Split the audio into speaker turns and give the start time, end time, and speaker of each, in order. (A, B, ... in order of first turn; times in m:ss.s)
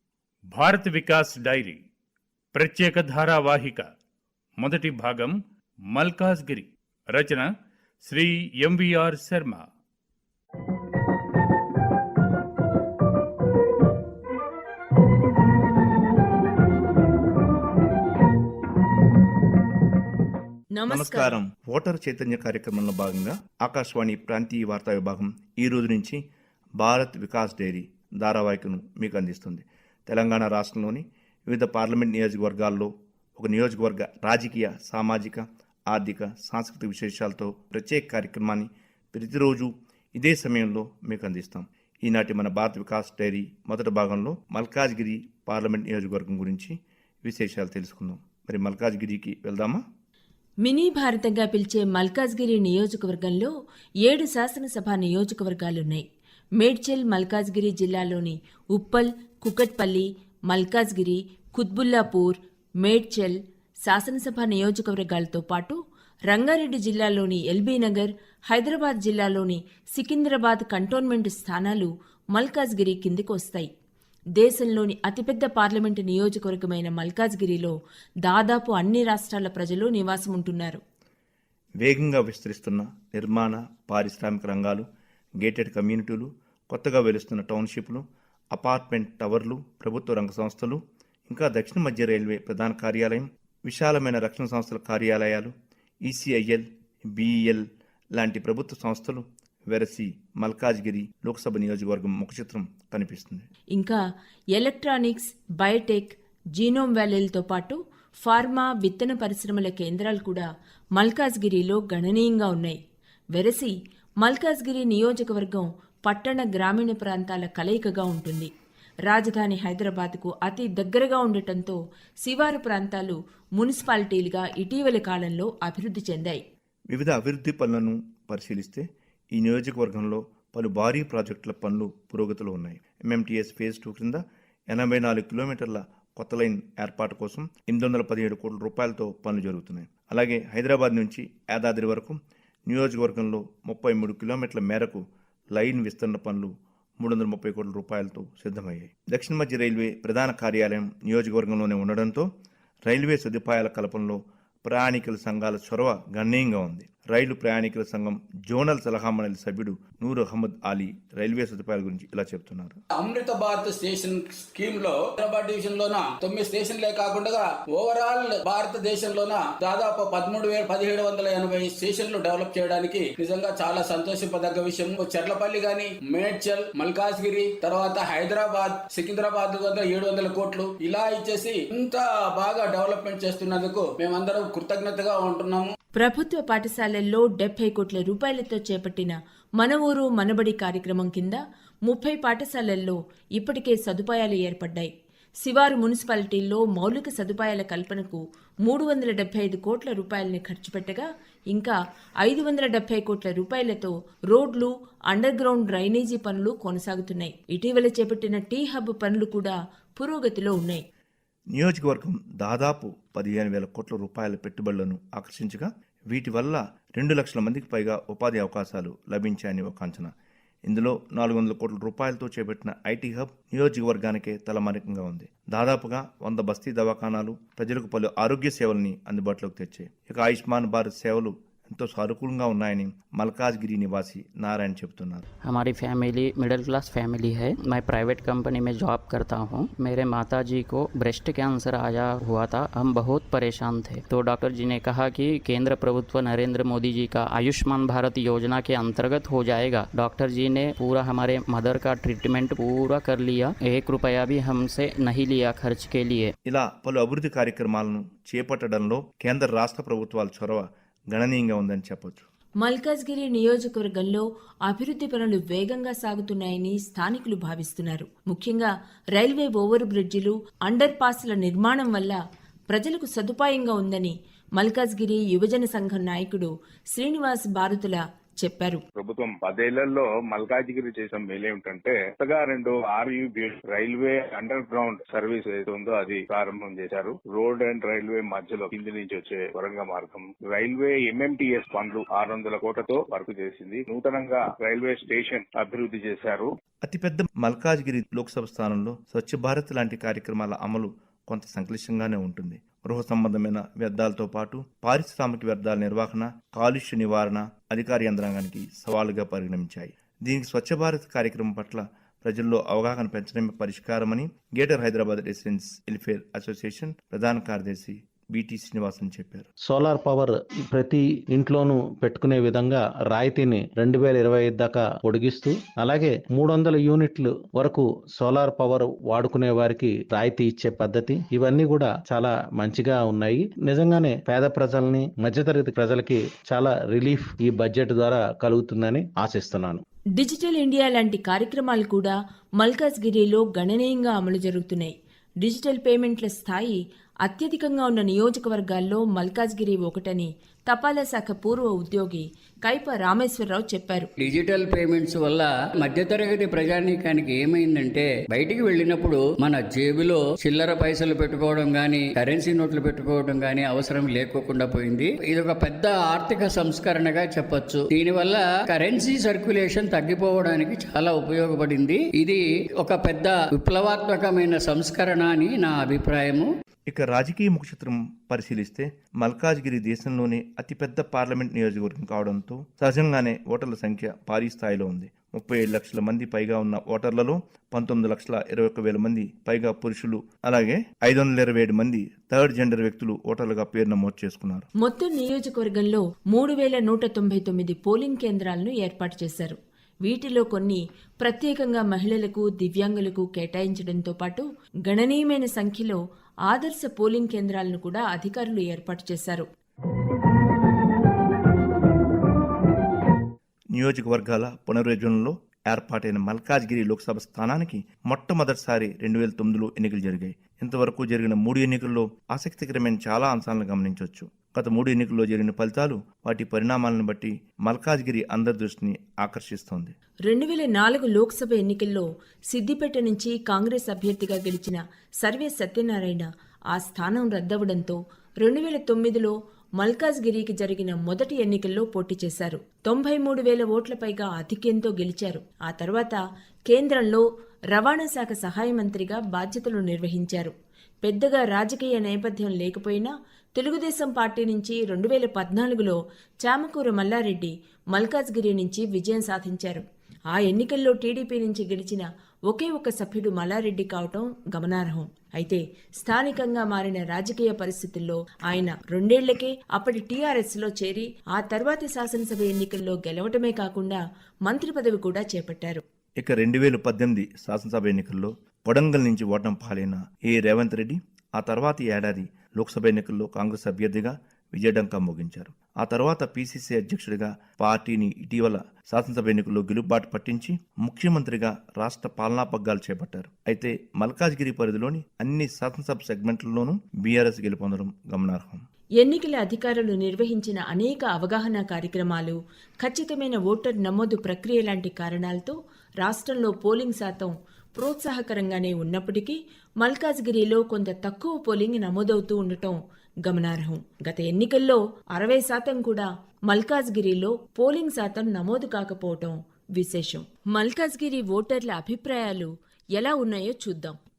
0:00.5-0:01.8 A
0:02.5-0:03.9 A
0:04.6-0:05.4 A
0:05.9-0:07.5 A
0:08.0-0:09.6 A
0:20.8-0:21.3 B
0:20.9-0:26.2 C
0:26.8-0:49.8 C
0:50.6-0:53.5 B
0:54.1-0:56.0 B
0:56.6-1:05.8 B
1:06.3-1:13.7 B
1:14.4-1:17.8 B
1:18.3-1:20.8 B
1:21.8-1:24.9 C
1:25.4-1:28.0 C
1:28.5-1:35.5 C
1:36.0-1:37.6 C
1:38.2-1:43.5 C
1:44.6-1:52.8 B
1:53.4-1:58.5 B
1:59.1-2:06.4 B
2:06.9-2:25.0 C
2:25.5-2:32.3 C
2:32.9-2:42.8 C
2:43.0-3:05.7 D
3:06.0-3:14.9 B
3:15.4-3:30.8 B
3:31.5-3:40.1 C
3:40.6-3:55.2 C
3:55.4-4:16.3 E
4:16.5-4:22.3 C
4:22.6-4:32.2 B
4:32.7-4:38.8 B
4:39.0-4:56.5 F
4:56.8-5:19.5 C
5:19.6-5:39.8 G
5:40.2-5:54.1 B
5:54.2-6:16.5 H
6:16.9-6:34.7 C
6:34.8-6:49.4 B
6:53.7-7:09.9 C
7:10.3-7:30.5 B
7:31.0-7:55.8 B
7:56.2-8:18.6 C
8:19.0-8:44.0 B